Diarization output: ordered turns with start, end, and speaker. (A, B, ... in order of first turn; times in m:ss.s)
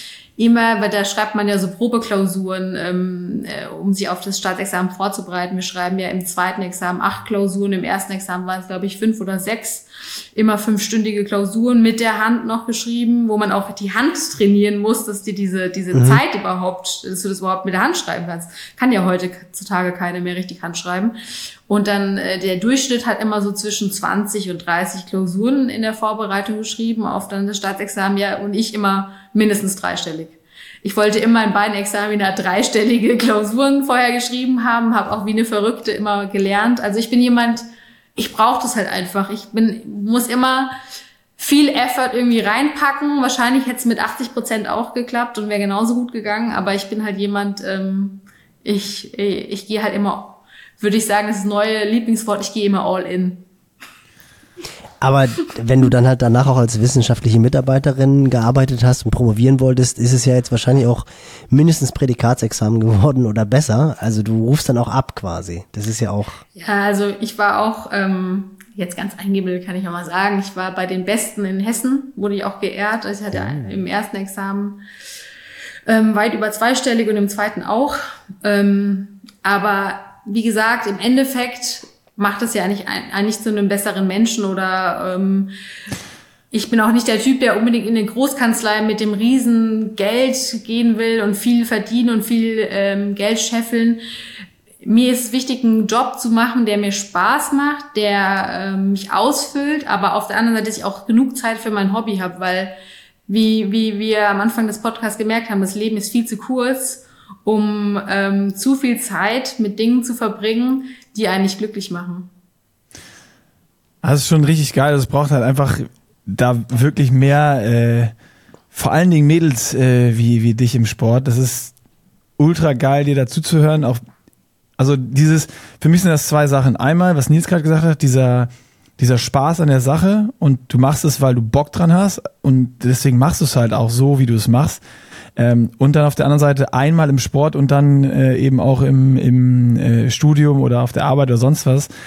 0:00.4-0:21.2 A
0:15.9-0:16.2 B
0:21.7-0:37.6 A
0:38.2-0:40.7 A
0:41.4-0:53.4 A
0:55.0-1:06.4 B
1:06.6-1:14.8 A
1:13.3-1:13.8 B
1:15.9-1:25.5 A
1:26.5-1:34.0 A
1:34.8-1:42.7 A
1:43.3-1:52.3 A
1:54.0-1:58.1 C
1:58.7-2:01.7 C
2:02.4-2:04.0 C
2:04.8-2:14.8 C
2:15.4-2:21.9 C